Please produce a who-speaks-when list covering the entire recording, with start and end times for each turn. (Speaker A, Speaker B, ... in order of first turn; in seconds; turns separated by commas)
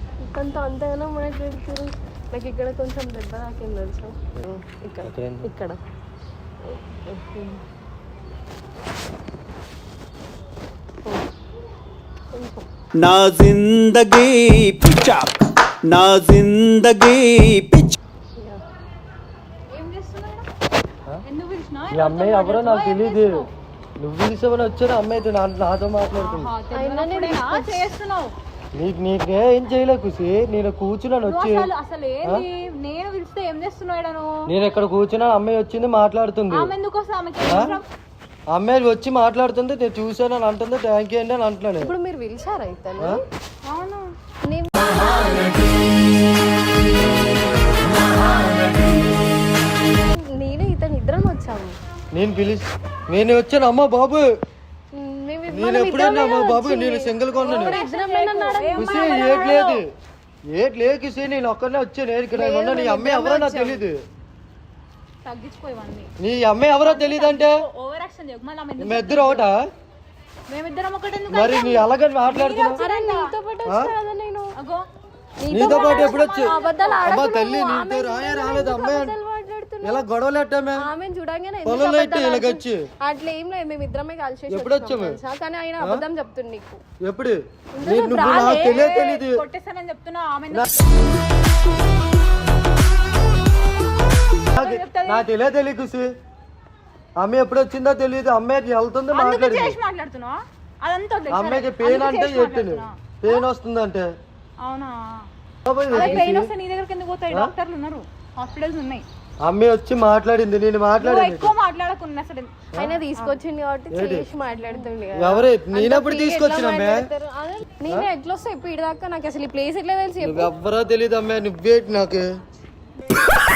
Speaker A: 0.2-5.8, Speaker B: 5.0-5.5, Speaker A: 6.6-7.6, Speaker A: 12.3-12.7, Speaker C: 13.0-17.9, Speaker D: 19.7-20.5, Speaker D: 21.2-23.5, Speaker B: 21.9-23.4, Speaker B: 24.0-26.5, Speaker D: 26.1-28.3, Speaker A: 26.7-27.8, Speaker B: 28.8-31.7, Speaker D: 31.2-34.4, Speaker B: 34.5-36.7, Speaker D: 36.5-37.8, Speaker B: 37.4-37.7, Speaker B: 38.5-41.9, Speaker A: 41.8-43.2, Speaker D: 43.7-44.1, Speaker A: 44.5-45.4, Speaker A: 50.0-51.8, Speaker B: 52.1-54.3, Speaker A: 54.9-59.3, Speaker B: 55.5-57.8, Speaker D: 57.4-59.8, Speaker B: 58.8-59.9, Speaker B: 60.5-64.0, Speaker A: 62.3-63.8, Speaker D: 65.2-66.1, Speaker B: 66.2-67.6, Speaker D: 66.8-69.5, Speaker B: 68.8-69.7, Speaker D: 70.5-73.3, Speaker B: 71.3-72.8, Speaker A: 72.7-74.5, Speaker B: 73.7-73.9, Speaker D: 74.5-74.9, Speaker A: 75.4-80.0, Speaker B: 75.5-79.1, Speaker D: 75.6-77.2, Speaker B: 79.8-80.9, Speaker A: 80.8-86.8, Speaker B: 81.6-82.8, Speaker B: 84.5-85.2, Speaker B: 87.0-89.4, Speaker A: 87.8-88.7, Speaker D: 88.2-90.7, Speaker D: 94.5-95.2, Speaker B: 94.5-96.1, Speaker B: 97.2-99.8, Speaker D: 99.1-103.4, Speaker B: 101.3-104.1, Speaker D: 104.6-105.3, Speaker B: 105.6-106.5, Speaker D: 105.9-109.0, Speaker A: 106.0-106.3, Speaker B: 109.4-111.5, Speaker D: 111.0-112.5, Speaker A: 112.8-120.5, Speaker B: 113.9-114.2, Speaker D: 114.5-114.9, Speaker B: 115.2-117.0, Speaker B: 120.2-122.2